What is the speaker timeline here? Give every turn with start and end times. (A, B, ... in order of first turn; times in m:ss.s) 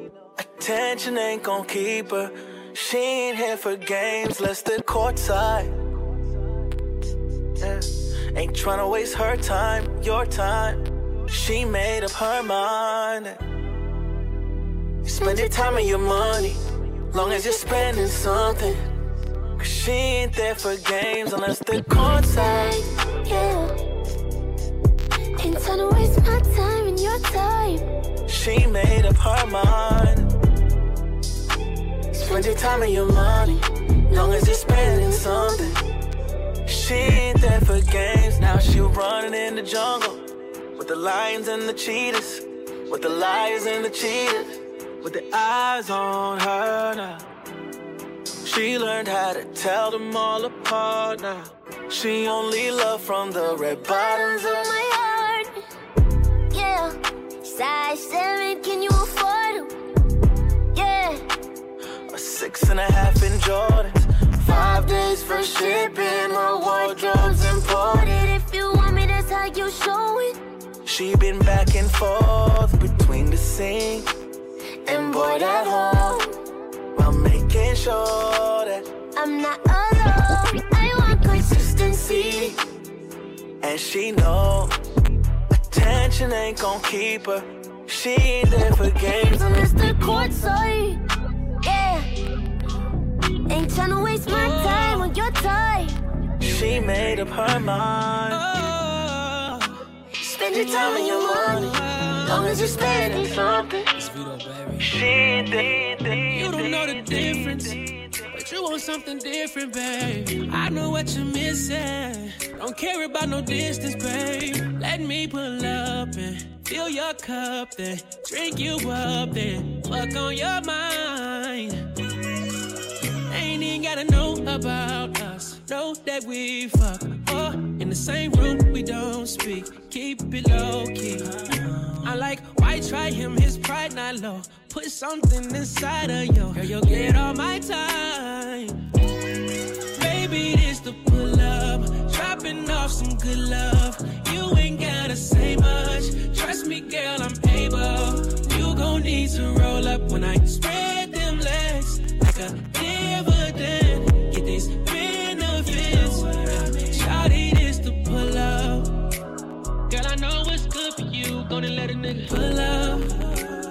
0:00.4-0:05.7 A
0:07.6-0:13.4 A
0:15.0-0:16.6 A
0:15.2-0:16.0 B
0:17.1-0:18.9 A
0:19.6-0:22.8 A
0:22.2-0:23.8 B
0:25.4-0:27.8 B
0:28.3-0:30.3 A
0:32.1-0:35.8 A
0:34.1-0:35.7 B
0:36.6-0:40.2 A
0:40.8-0:47.2 A
0:48.4-0:54.7 A
0:53.8-0:55.6 B
0:56.5-0:59.7 B
1:00.7-1:01.2 B
1:02.1-1:08.3 A
1:04.4-1:10.4 B
1:10.8-1:14.1 A
1:14.8-1:16.2 A
1:14.8-1:16.3 B
1:16.9-1:18.8 A
1:19.1-1:22.6 B
1:21.4-1:22.5 A
1:23.6-1:24.7 A
1:25.7-1:30.2 A
1:29.3-1:31.0 B
1:31.6-1:32.1 B
1:33.5-1:36.0 B
1:34.3-1:35.1 C
1:36.4-1:38.4 A
1:38.3-1:39.8 C
1:40.2-1:43.9 B
1:40.5-1:41.7 A
1:40.5-1:42.4 C
1:42.2-1:43.7 A
1:44.0-1:44.9 C
1:44.8-1:47.7 A
1:46.3-1:47.8 C
1:48.3-2:01.8 C
2:03.3-2:11.4 C
2:12.0-2:18.8 C
2:19.9-2:38.9 C
2:39.9-2:43.2 C